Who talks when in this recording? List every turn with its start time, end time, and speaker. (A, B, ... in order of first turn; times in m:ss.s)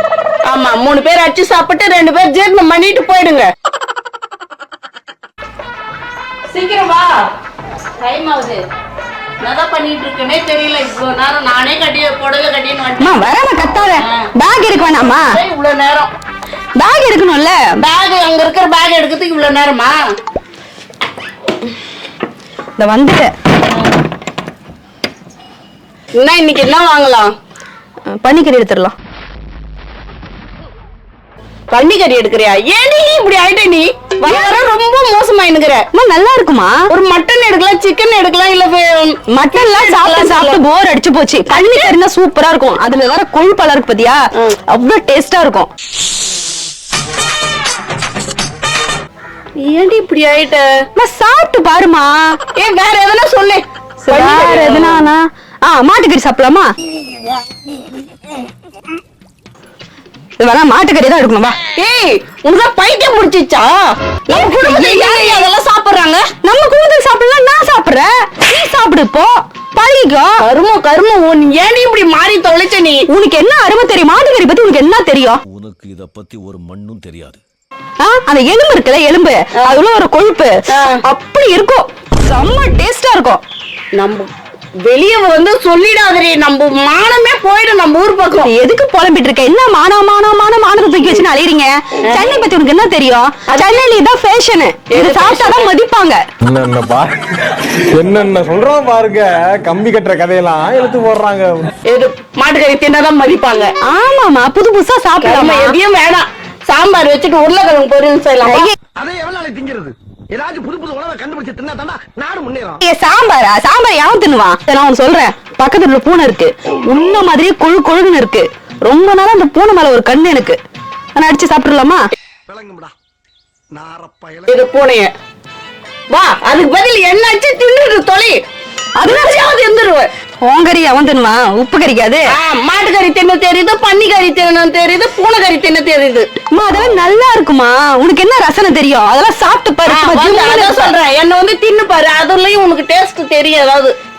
0:00.5-0:03.5 A
0:06.5-0:07.3 A
0:08.0-0:08.6 A
0:09.4-0:13.2 A
0:13.0-0:15.3 B
0:14.0-0:14.3 A
0:14.9-0:16.1 A
0:16.8-0:17.6 B
0:17.8-0:20.1 A
0:22.8-0:23.3 B
0:26.2-0:27.3 A
0:28.1-0:29.0 B
0:31.7-0:35.8 A
0:34.3-0:34.7 B
0:35.9-0:36.8 B
0:36.9-0:40.6 A
0:39.3-0:45.7 B
0:41.5-0:41.9 A
0:49.6-0:50.8 A
0:51.0-0:52.4 B
0:52.6-0:55.1 A
0:54.0-0:56.7 B
1:00.4-1:01.6 B
1:01.8-1:03.8 A
1:04.3-1:06.3 A
1:04.3-1:05.5 B
1:06.4-1:10.4 B
1:10.4-1:13.0 A
1:13.1-1:15.4 B
1:15.5-1:17.4 C
1:18.0-1:23.4 B
1:20.7-1:21.0 A
1:24.0-1:24.3 A
1:24.8-1:28.5 A
1:28.4-1:36.2 B
1:32.0-1:32.4 A
1:33.5-1:33.8 A
1:34.9-1:35.7 A
1:36.5-1:37.1 D
1:38.0-1:39.1 D
1:38.2-1:41.7 E
1:40.6-1:41.1 D
1:41.9-1:43.7 A
1:43.8-1:45.8 B
1:45.2-1:48.7 A
1:48.4-1:48.8 B
1:49.0-1:52.8 D
1:52.8-2:00.6 B
2:01.2-2:02.0 B
2:02.5-2:02.9 D
2:03.7-2:04.5 D
2:04.5-2:05.1 A
2:06.1-2:08.4 A
2:09.0-2:09.5 B
2:09.0-2:10.1 A
2:10.4-2:12.2 B
2:12.3-2:16.3 A
2:16.5-2:21.0 B
2:19.9-2:23.9 A